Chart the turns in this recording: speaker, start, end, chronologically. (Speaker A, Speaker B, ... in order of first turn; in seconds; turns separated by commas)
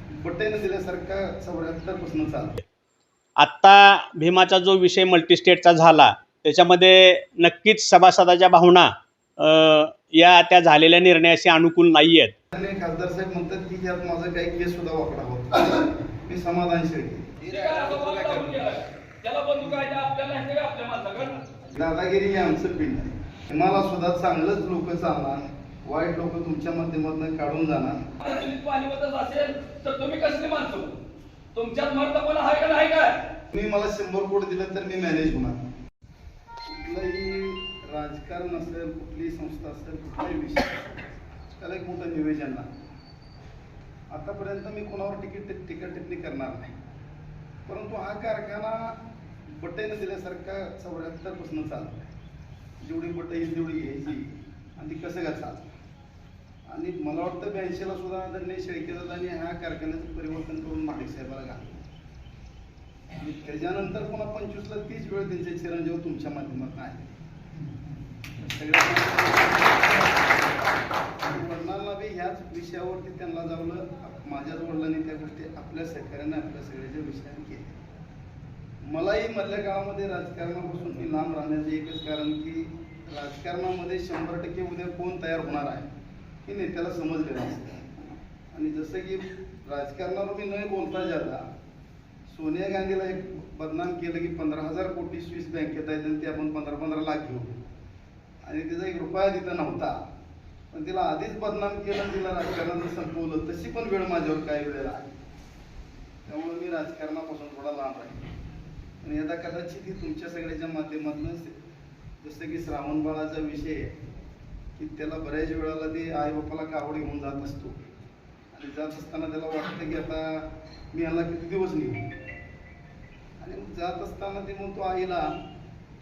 Speaker A: 0.2-2.5, Speaker B: 3.4-12.3, Speaker A: 12.5-17.3, Speaker C: 17.5-21.4, Speaker A: 21.7-28.0, Speaker C: 28.2-31.0, Speaker C: 31.5-33.1, Speaker A: 33.5-35.6, Speaker A: 36.6-42.7, Speaker A: 44.1-46.7, Speaker A: 47.6-49.0, Speaker A: 49.5-52.1, Speaker A: 52.8-55.7, Speaker A: 56.7-61.8, Speaker A: 63.1-67.1, Speaker A: 68.4-77.8, Speaker A: 78.8-85.9, Speaker A: 86.4-91.4, Speaker A: 92.3-97.5, Speaker A: 98.4-100.0, Speaker A: 100.7-105.1, Speaker A: 106.3-108.2, Speaker A: 109.0-111.5, Speaker A: 112.2-113.9, Speaker A: 114.8-117.8, Speaker A: 118.5-122.1, Speaker A: 123.4-125.3